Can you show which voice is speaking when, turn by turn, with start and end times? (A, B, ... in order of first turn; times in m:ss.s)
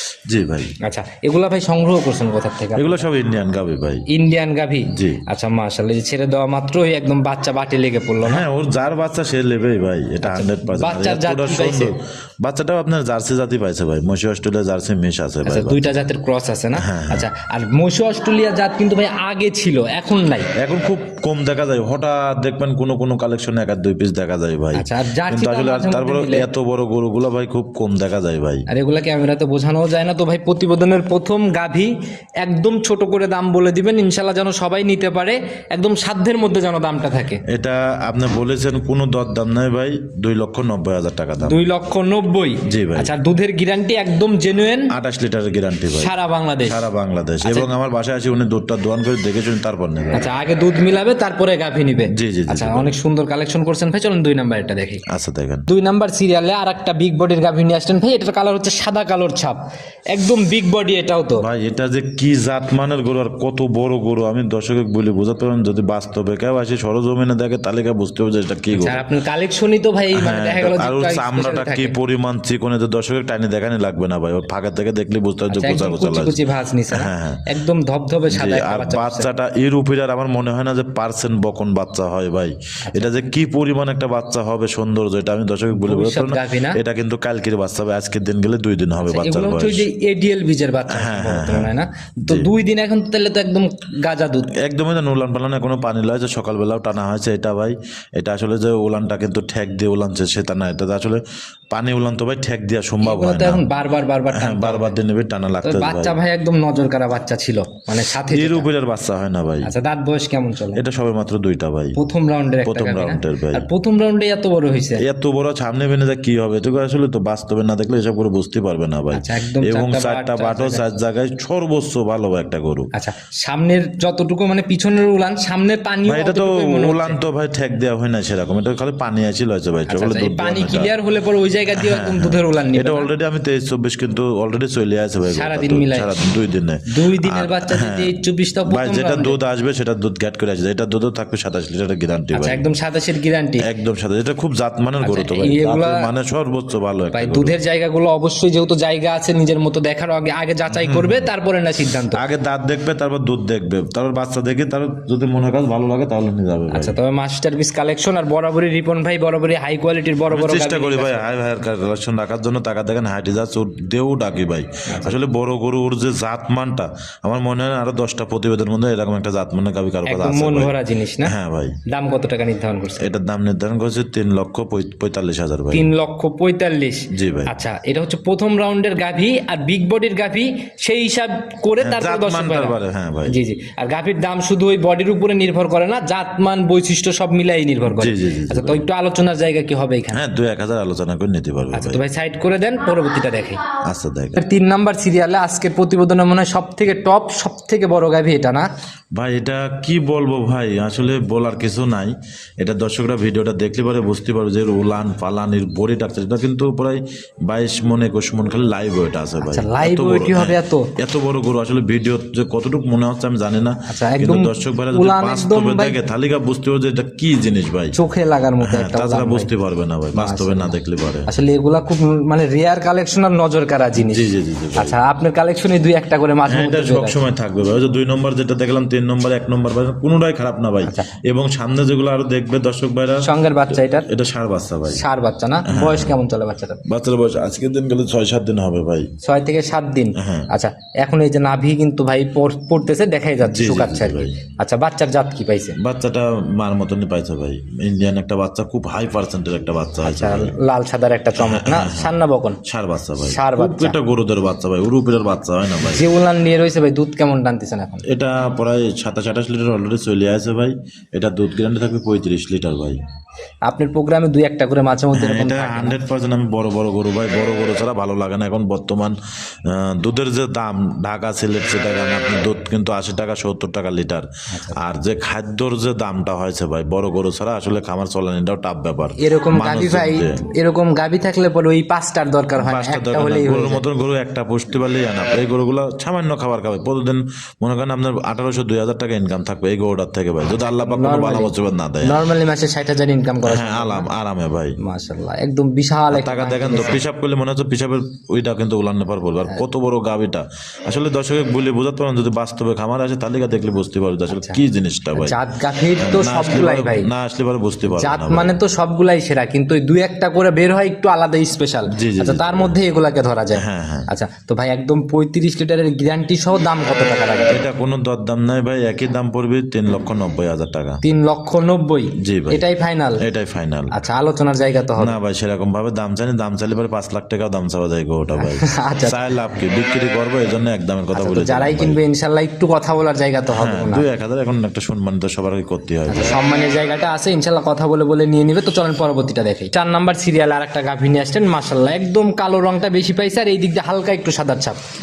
0:00.3-0:00.8 A
0:00.8-0:03.1 B
0:02.8-0:04.0 A
0:04.1-0:08.4 B
0:04.9-0:05.2 A
0:08.2-0:15.9 A
0:10.2-0:11.9 B
0:15.4-0:20.5 B
0:16.8-0:17.3 A
0:20.6-0:28.6 A
0:24.8-0:26.4 B
0:28.7-0:37.4 B
0:37.5-0:41.6 A
0:41.4-0:44.9 B
0:42.6-0:43.1 A
0:44.9-0:46.1 A
0:45.9-0:46.8 B
0:46.6-0:50.3 A
0:47.4-0:47.7 B
0:50.1-0:55.0 B
0:52.1-0:52.9 A
0:55.1-0:55.7 A
0:55.7-1:01.4 B
1:01.4-1:09.0 A
1:08.7-1:12.0 B
1:10.2-1:16.4 A
1:15.5-1:19.3 B
1:16.9-1:17.4 A
1:18.3-1:29.9 A
1:22.9-1:23.1 B
1:25.7-1:26.8 B
1:29.1-1:34.5 B
1:30.9-1:31.7 A
1:32.2-1:32.5 A
1:34.6-1:43.6 A
1:43.0-1:44.9 B
1:44.3-1:46.2 A
1:45.6-1:48.7 B
1:48.2-1:49.7 A
1:49.6-1:50.8 B
1:50.8-1:52.0 A
1:52.0-1:55.0 B
1:52.6-1:53.7 A
1:55.0-2:02.9 A
1:59.1-2:00.8 B
2:02.9-2:07.2 B
2:06.1-2:10.9 A
2:09.9-2:13.1 B
2:11.8-2:18.2 A
2:15.2-2:16.2 B
2:16.9-2:19.4 B
2:18.7-2:22.7 A
2:22.3-2:23.6 B
2:23.6-2:27.6 A
2:25.0-2:26.1 B
2:27.2-2:32.2 B
2:30.7-2:31.3 A
2:32.1-2:37.0 A
2:36.7-2:41.2 B
2:40.3-2:51.8 A
2:44.9-2:45.2 B
2:50.1-2:51.3 B
2:51.9-2:53.1 B
2:53.0-2:55.9 A
2:55.7-3:02.8 B
2:57.1-2:57.5 A
3:01.8-3:03.4 A
3:03.3-3:10.2 B
3:08.0-3:08.8 A
3:10.1-3:12.0 A
3:11.7-3:13.6 B
3:13.8-3:14.4 A
3:14.4-3:18.7 B
3:19.2-3:38.0 A
3:29.4-3:30.9 B
3:33.9-3:36.0 B
3:37.9-3:39.5 B
3:38.6-3:41.3 A
3:40.1-3:40.8 B
3:41.3-3:44.2 B
3:44.1-3:45.0 A
3:44.8-3:47.2 B
3:46.5-3:53.3 A
3:50.8-3:51.1 B
3:53.2-3:54.1 B
3:54.0-3:55.0 A
3:54.9-3:56.8 B
3:55.6-3:56.2 A
3:56.8-3:59.1 A
3:59.2-4:05.8 B
4:00.2-4:00.5 A
4:03.4-4:04.4 A
4:05.8-4:10.6 A
4:10.0-4:12.6 B
4:11.4-4:16.0 A
4:13.2-4:14.0 B
4:15.8-4:18.0 B
4:18.1-4:23.0 A
4:23.7-4:26.0 B
4:25.1-4:40.4 A
4:34.5-4:34.8 B
4:39.2-4:43.8 B
4:42.6-4:52.2 A
4:50.8-4:54.1 B
4:53.4-4:54.8 A
4:54.8-4:57.0 B
4:56.1-5:05.4 A
5:04.3-5:04.6 B
5:05.2-5:07.1 B
5:06.0-5:08.5 A
5:07.9-5:17.6 B
5:11.9-5:12.8 A
5:13.5-5:14.1 A
5:17.5-5:21.0 A
5:21.0-5:23.2 B
5:22.2-5:22.6 A
5:23.2-5:23.9 A
5:23.9-5:25.1 B
5:25.0-5:32.0 A
5:28.4-5:29.2 B
5:31.1-5:34.0 B
5:33.5-5:36.4 A
5:36.1-5:44.8 B